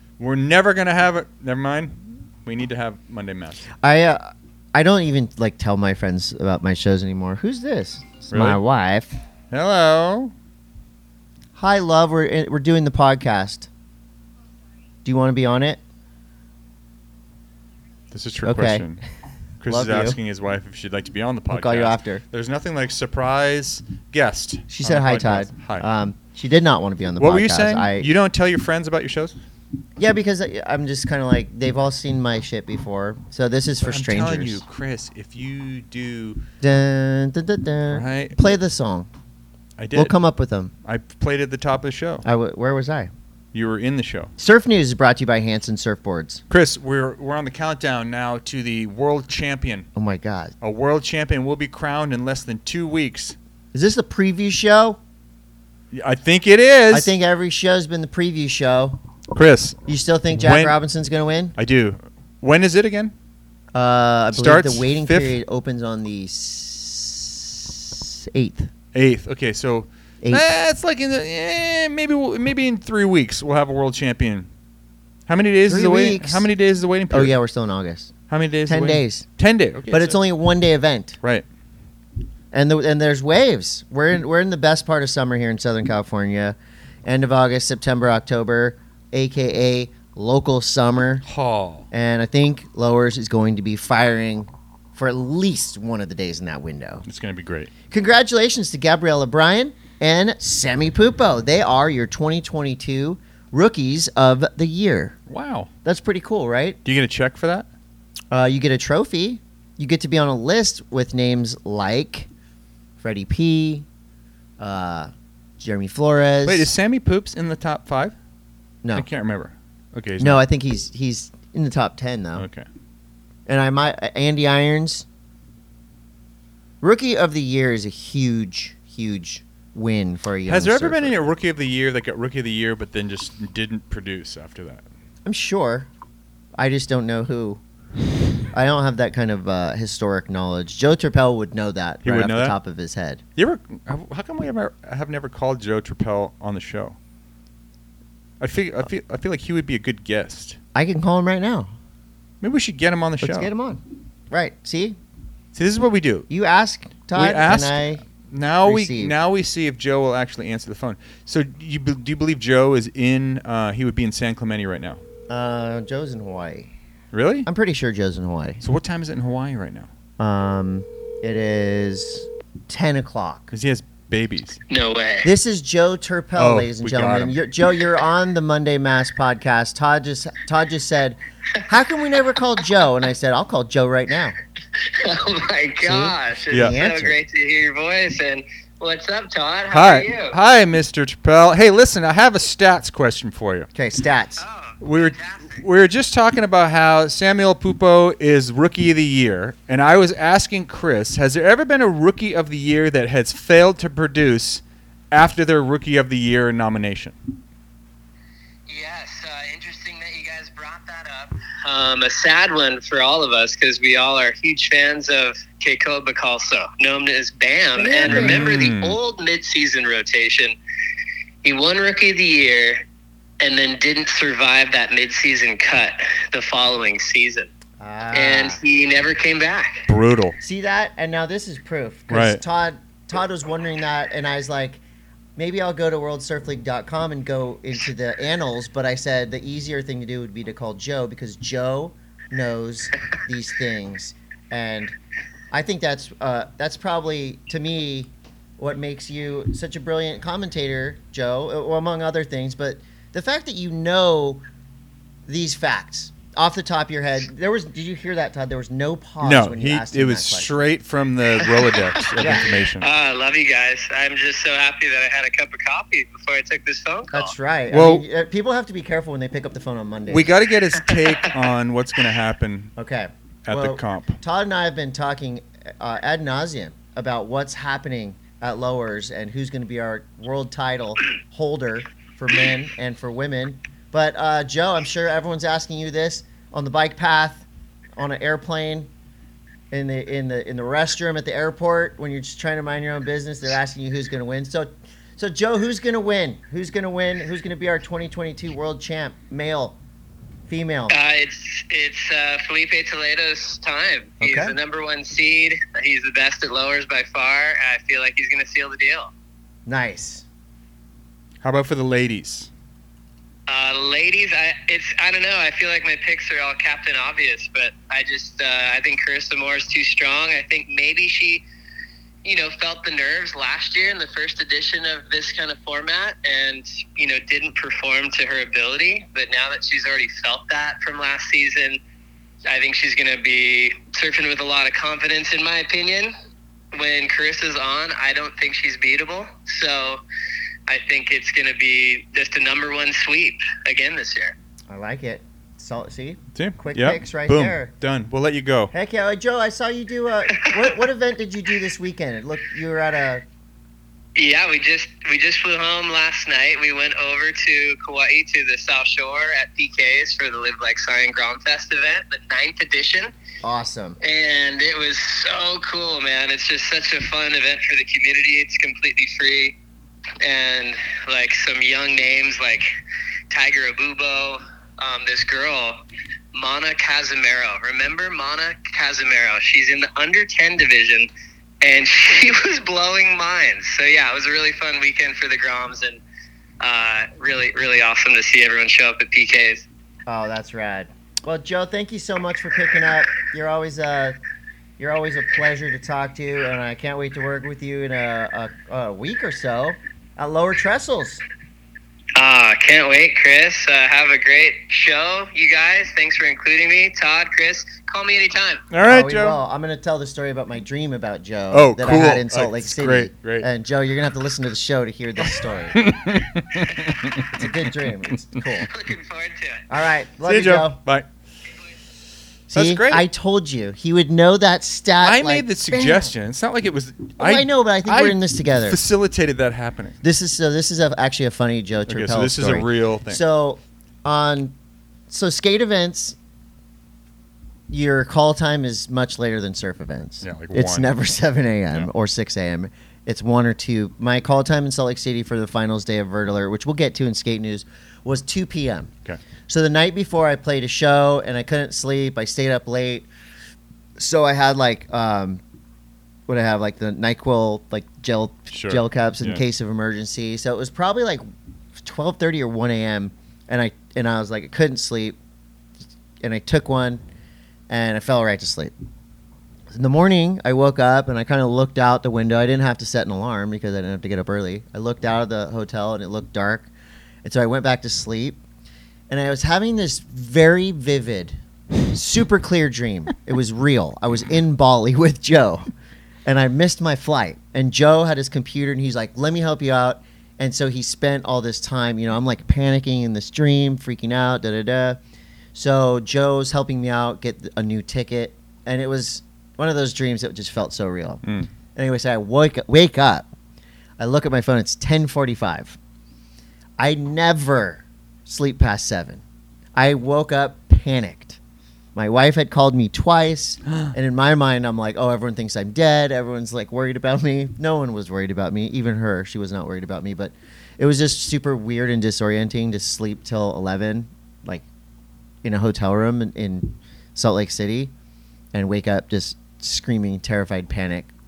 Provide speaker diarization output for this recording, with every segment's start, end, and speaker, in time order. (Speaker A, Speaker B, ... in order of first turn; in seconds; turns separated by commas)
Speaker A: 0.2-3.7, Speaker B: 3.8-9.2, Speaker A: 8.3-8.6, Speaker A: 9.5-10.3, Speaker B: 11.6-13.7, Speaker B: 15.0-15.8, Speaker A: 18.1-19.0, Speaker B: 18.4-18.8, Speaker A: 19.6-25.9, Speaker B: 19.6-20.2, Speaker B: 21.5-22.2, Speaker B: 24.7-28.1, Speaker A: 27.2-29.4, Speaker B: 30.0-34.6, Speaker A: 33.8-36.4, Speaker B: 36.6-39.1, Speaker A: 37.9-38.5, Speaker A: 39.8-40.1, Speaker B: 39.9-40.7, Speaker A: 40.8-42.2, Speaker B: 42.2-43.1, Speaker A: 43.5-44.3, Speaker B: 44.4-46.4, Speaker A: 46.5-49.9, Speaker B: 49.9-50.5, Speaker A: 50.6-53.4, Speaker B: 53.7-55.0, Speaker A: 55.9-57.1, Speaker B: 56.9-59.0, Speaker A: 59.3-59.8, Speaker B: 59.9-61.5, Speaker A: 60.3-60.7, Speaker A: 61.5-63.1, Speaker B: 63.7-68.7, Speaker A: 64.3-65.4, Speaker A: 68.9-74.5, Speaker B: 70.2-70.5, Speaker A: 75.3-77.4, Speaker B: 75.7-76.5, Speaker B: 77.1-78.1, Speaker A: 78.3-80.2, Speaker B: 78.7-79.2, Speaker B: 79.9-81.2, Speaker B: 82.5-91.2, Speaker A: 91.2-91.9, Speaker B: 91.9-97.0, Speaker A: 97.0-97.7, Speaker B: 97.9-105.2, Speaker A: 105.3-105.7, Speaker B: 105.8-106.8, Speaker A: 106.8-107.7, Speaker B: 108.3-112.3, Speaker B: 113.0-113.8, Speaker B: 114.6-116.7, Speaker A: 116.4-118.1, Speaker A: 118.9-120.4, Speaker B: 120.2-122.5, Speaker A: 122.3-122.7, Speaker B: 123.5-125.0, Speaker B: 126.8-131.1, Speaker A: 130.4-134.8, Speaker B: 135.2-135.9, Speaker B: 136.6-137.6, Speaker B: 138.5-143.2, Speaker A: 142.0-142.6, Speaker A: 143.4-147.0, Speaker A: 148.4-150.6, Speaker B: 150.7-151.7, Speaker A: 152.4-153.5, Speaker B: 153.2-155.0, Speaker A: 155.5-156.3, Speaker B: 156.3-158.0, Speaker A: 157.1-165.0, Speaker B: 158.6-159.1, Speaker B: 165.3-166.7, Speaker A: 167.1-167.5, Speaker B: 167.4-168.6, Speaker A: 168.6-169.9, Speaker B: 170.2-173.5, Speaker A: 173.5-174.6, Speaker C: 174.7-175.3, Speaker B: 175.2-184.3, Speaker A: 176.3-177.4, Speaker C: 184.8-190.3, Speaker B: 185.8-187.2, Speaker A: 189.7-193.7, Speaker B: 193.7-194.4, Speaker C: 194.4-195.6, Speaker A: 194.8-207.2, Speaker C: 208.7-220.6, Speaker B: 217.8-218.5, Speaker A: 218.1-219.0, Speaker C: 221.4-222.8, Speaker C: 223.4-227.5, Speaker B: 227.8-228.6, Speaker C: 228.1-229.8, Speaker A: 229.9-230.4, Speaker B: 230.4-234.8, Speaker A: 232.1-232.4, Speaker B: 235.4-244.9, Speaker B: 245.5-254.4, Speaker B: 255.3-260.5, Speaker A: 259.2-262.9, Speaker B: 262.2-262.4, Speaker C: 262.8-267.3, Speaker B: 267.1-270.3, Speaker A: 267.7-268.0, Speaker A: 270.1-272.7, Speaker C: 270.9-271.2, Speaker B: 272.8-287.4, Speaker A: 273.4-274.2, Speaker B: 288.0-288.9, Speaker B: 289.7-299.8, Speaker B: 300.5-300.9, Speaker C: 300.9-309.1, Speaker B: 304.2-304.6, Speaker B: 309.7-310.2, Speaker A: 311.4-312.5, Speaker C: 313.5-321.4, Speaker C: 322.2-331.8, Speaker C: 332.4-336.1, Speaker C: 336.7-340.0, Speaker C: 340.7-344.3, Speaker B: 344.7-347.7, Speaker A: 346.3-348.7, Speaker B: 348.7-353.2, Speaker C: 354.1-363.1, Speaker B: 363.4-364.0, Speaker C: 364.0-369.5, Speaker C: 370.2-372.7, Speaker C: 373.3-375.8, Speaker C: 376.3-381.1, Speaker C: 381.6-386.0, Speaker C: 386.6-389.6, Speaker B: 390.1-394.2, Speaker B: 394.8-401.2, Speaker C: 402.2-408.6, Speaker A: 408.7-409.4, Speaker B: 408.8-415.8, Speaker A: 411.5-413.5, Speaker A: 415.7-418.4, Speaker B: 417.3-418.7, Speaker C: 418.6-419.6, Speaker B: 419.7-420.8, Speaker A: 420.2-421.1, Speaker B: 422.5-426.1, Speaker A: 422.5-423.1, Speaker A: 425.0-430.0, Speaker B: 427.2-428.8, Speaker B: 430.0-434.5, Speaker A: 431.9-433.2, Speaker B: 435.1-436.1, Speaker B: 437.7-448.9, Speaker A: 440.2-440.9, Speaker B: 449.5-453.1, Speaker B: 454.0-455.4, Speaker B: 456.3-461.2, Speaker A: 458.5-459.4, Speaker B: 461.8-465.1, Speaker B: 466.2-467.0, Speaker B: 467.7-468.7, Speaker B: 469.7-476.7, Speaker B: 477.2-478.4, Speaker B: 479.1-481.4, Speaker B: 481.9-485.7, Speaker B: 486.2-495.0, Speaker B: 495.5-501.2, Speaker B: 501.7-503.3, Speaker B: 504.0-505.8, Speaker B: 506.8-509.2, Speaker B: 509.8-511.4, Speaker B: 511.9-524.6, Speaker B: 525.4-527.9, Speaker B: 528.5-531.1